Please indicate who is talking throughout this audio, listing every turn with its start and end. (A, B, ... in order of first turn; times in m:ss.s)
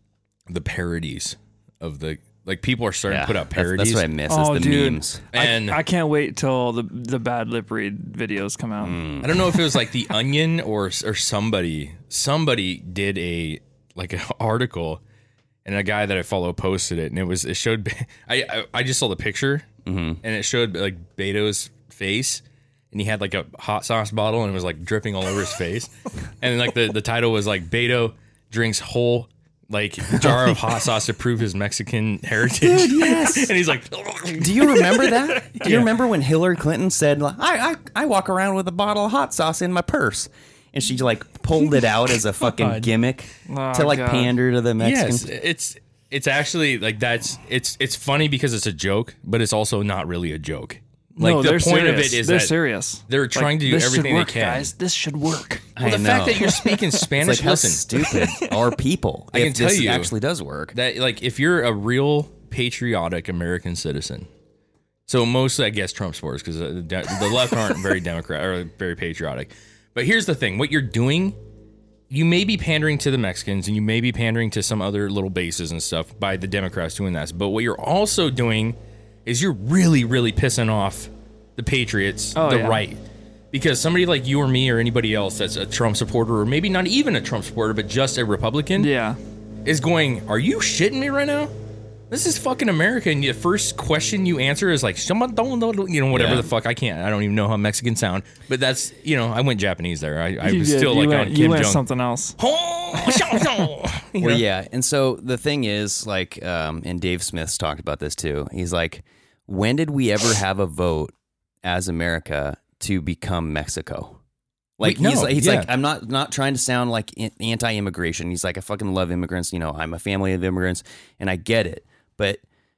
0:00.5-0:04.1 A
0:03.1-0:05.3 B
0:04.3-0:09.0 C
0:05.3-0:05.8 A
0:08.8-0:09.6 B
0:09.2-0:15.0 A
0:15.6-0:19.7 A
0:19.8-0:20.2 B
0:20.2-0:35.9 A
0:32.6-0:33.5 B
0:34.4-0:45.3 B
0:43.5-0:44.3 C
0:44.8-0:52.5 A
0:51.2-0:55.7 C
0:53.1-0:54.7 A
0:55.8-1:00.8 B
0:55.8-0:57.9 A
0:56.4-0:57.1 C
0:58.0-0:58.7 C
0:59.3-1:00.1 A
1:00.7-1:04.3 A
1:05.1-1:11.4 A
1:12.1-1:23.0 A
1:22.4-1:22.8 C
1:23.5-1:28.9 A
1:28.8-1:29.2 C
1:29.6-1:31.5 A
1:32.1-1:41.8 A
1:36.1-1:36.5 B
1:40.4-1:42.4 C
1:42.4-1:44.4 A
1:43.0-1:43.4 C
1:44.2-1:54.2 B
1:54.8-2:02.4 B
1:54.8-1:55.7 A